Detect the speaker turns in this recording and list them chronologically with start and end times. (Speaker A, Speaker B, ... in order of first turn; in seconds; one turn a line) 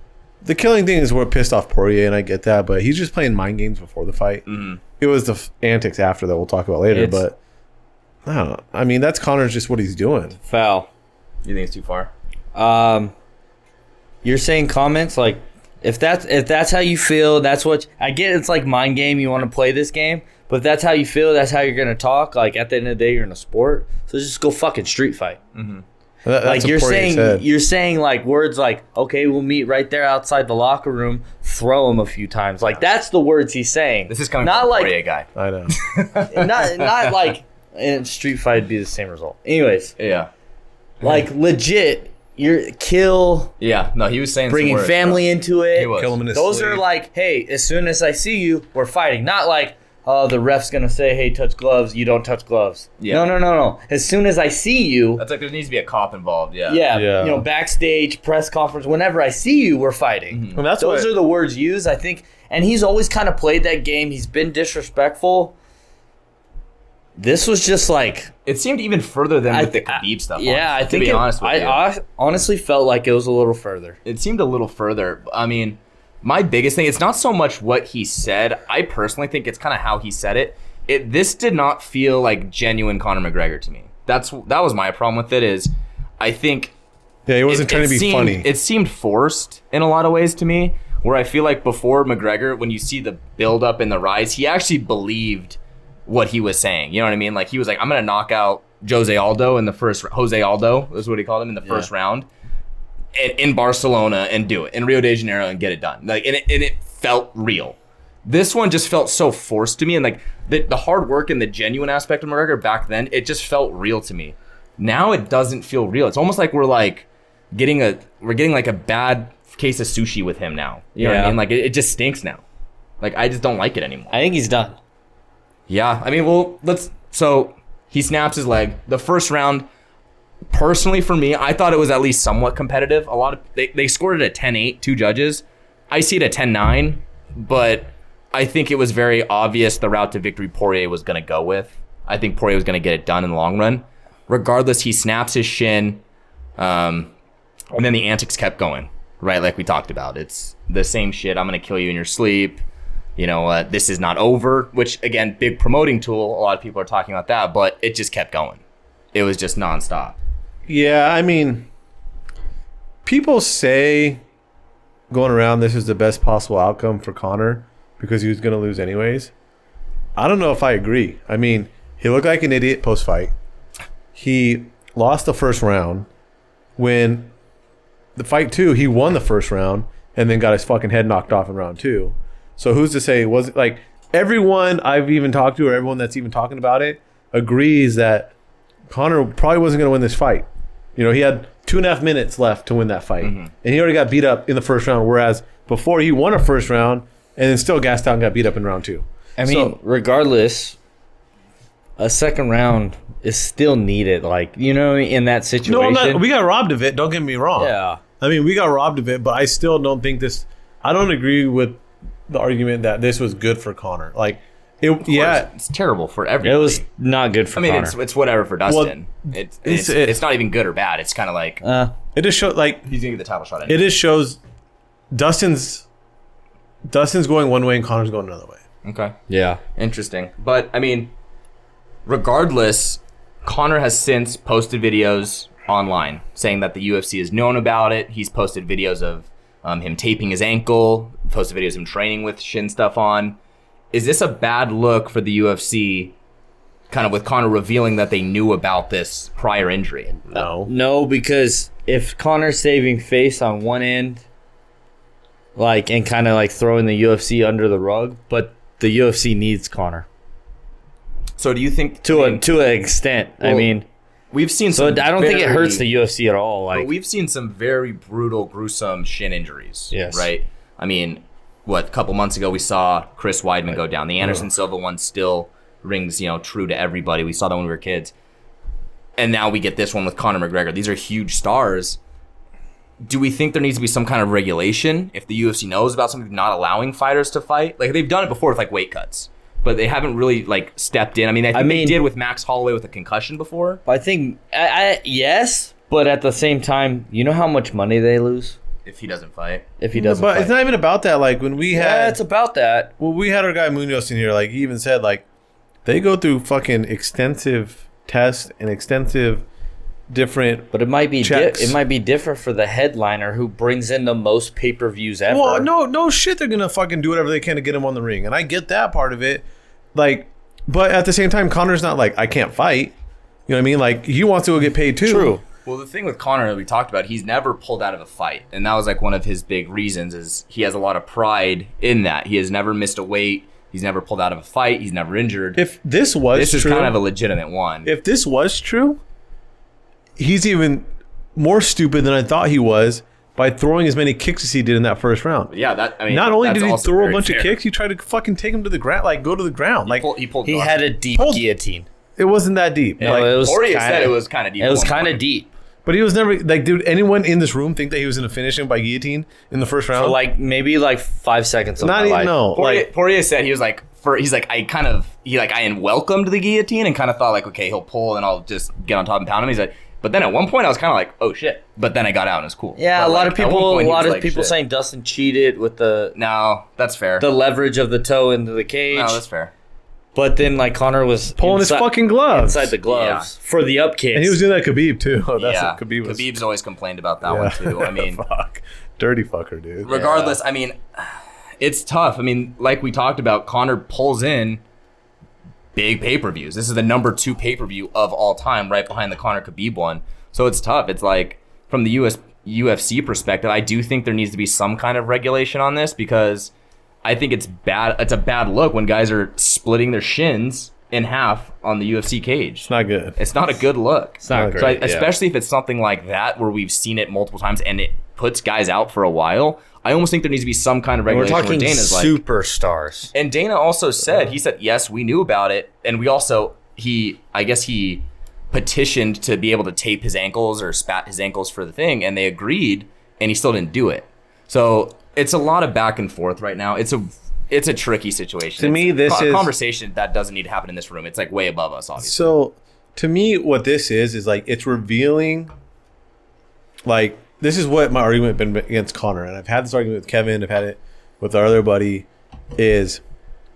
Speaker A: 0.4-4.4
Speaker B: 4.5-4.8
Speaker A: 5.0-7.4
Speaker C: 6.9-7.2
Speaker A: 8.2-10.4
Speaker C: 10.4-10.9
Speaker B: 11.4-12.1
Speaker C: 12.5-13.1
Speaker C: 14.2-25.4
Speaker B: 25.5-25.8
Speaker A: 26.2-27.4
Speaker C: 26.4-34.9
Speaker B: 34.1-37.1
Speaker A: 35.3-35.8
Speaker C: 36.3-39.9
Speaker B: 40.0-40.3
Speaker C: 41.0-43.5
Speaker B: 43.6-46.2
Speaker C: 44.5-55.2
Speaker A: 46.0-46.8
Speaker B: 53.0-53.3
Speaker B: 55.2-56.9
Speaker C: 56.7-65.5
Speaker A: 56.9-57.5
Speaker B: 60.3-60.6
Speaker A: 60.5-61.1
Speaker C: 67.2-68.3
Speaker B: 68.5-71.8
Speaker C: 69.5-74.0
Speaker B: 74.0-86.7
Speaker A: 87.3-88.5
Speaker B: 87.5-102.3
Speaker B: 103.1-122.4
Speaker C: 121.0-121.4
Speaker B: 123.0-124.1
Speaker C: 124.1-124.8
Speaker B: 125.7-129.7
Speaker B: 130.5-146.0
Speaker B: 146.6-147.1
Speaker B: 147.7-152.6
Speaker B: 153.2-158.6
Speaker B: 159.1-160.2
Speaker A: 160.7-161.7
Speaker A: 163.0-164.2
Speaker A: 165.1-169.3
Speaker A: 170.2-173.3
Speaker A: 174.1-176.1
Speaker A: 176.8-177.3
Speaker A: 178.2-188.3
Speaker A: 188.9-199.8
Speaker B: 193.2-193.5
Speaker C: 199.4-200.8
Speaker C: 202.0-206.2
Speaker A: 205.6-215.5
Speaker C: 207.6-208.0
Speaker B: 215.0-216.8
Speaker C: 216.4-217.9
Speaker B: 217.5-221.6
Speaker A: 218.7-218.9
Speaker A: 219.6-220.2
Speaker C: 221.6-221.9
Speaker A: 222.1-222.9
Speaker B: 222.9-223.8
Speaker A: 223.7-224.4
Speaker A: 225.1-225.8
Speaker A: 226.8-228.6
Speaker B: 228.8-229.1
Speaker C: 229.3-229.6
Speaker B: 229.7-231.1
Speaker B: 232.1-243.4
Speaker B: 243.9-246.1
Speaker B: 246.9-250.2
Speaker A: 250.3-250.7
Speaker C: 250.3-254.2
Speaker C: 255.6-260.1
Speaker B: 261.4-262.5
Speaker C: 262.0-263.8
Speaker B: 263.4-263.7
Speaker B: 264.3-265.8
Speaker C: 264.7-266.9
Speaker B: 266.7-278.1
Speaker C: 269.9-270.3
Speaker B: 279.2-282.0
Speaker B: 283.0-293.8
Speaker C: 291.5-292.0
Speaker C: 293.9-298.6
Speaker B: 298.8-299.6
Speaker C: 299.8-300.5
Speaker A: 299.9-302.2
Speaker C: 301.7-302.9
Speaker A: 303.0-305.2
Speaker A: 305.8-309.4
Speaker A: 310.1-311.8
Speaker C: 310.7-315.7
Speaker A: 315.3-322.9
Speaker A: 323.5-325.4
Speaker C: 325.0-325.4
Speaker B: 325.6-335.6
Speaker A: 335.6-337.0
Speaker B: 336.3-337.9
Speaker A: 337.8-339.0
Speaker A: 340.2-345.5
Speaker B: 345.5-347.6
Speaker A: 346.1-350.1
Speaker B: 349.9-350.9
Speaker C: 350.4-351.9
Speaker A: 351.1-351.4
Speaker A: 352.2-353.3
Speaker B: 353.0-355.2
Speaker C: 353.0-355.5
Speaker A: 355.9-360.2
Speaker C: 359.9-362.3
Speaker A: 361.8-362.9
Speaker B: 362.5-374.5
Speaker C: 372.8-376.1
Speaker B: 376.1-377.2
Speaker C: 377.2-379.2
Speaker B: 378.9-379.5
Speaker C: 380.1-384.4
Speaker A: 381.4-382.7
Speaker B: 382.9-383.3
Speaker A: 384.1-386.3
Speaker B: 385.4-388.2
Speaker A: 387.2-390.1
Speaker B: 389.8-394.6
Speaker C: 389.9-390.4
Speaker B: 395.7-406.5
Speaker B: 407.0-422.2
Speaker A: 412.6-413.2
Speaker C: 414.2-415.1
Speaker A: 414.3-414.7
Speaker C: 421.1-423.1
Speaker B: 423.1-442.4
Speaker A: 438.6-439.5
Speaker A: 442.0-445.5
Speaker A: 446.9-453.0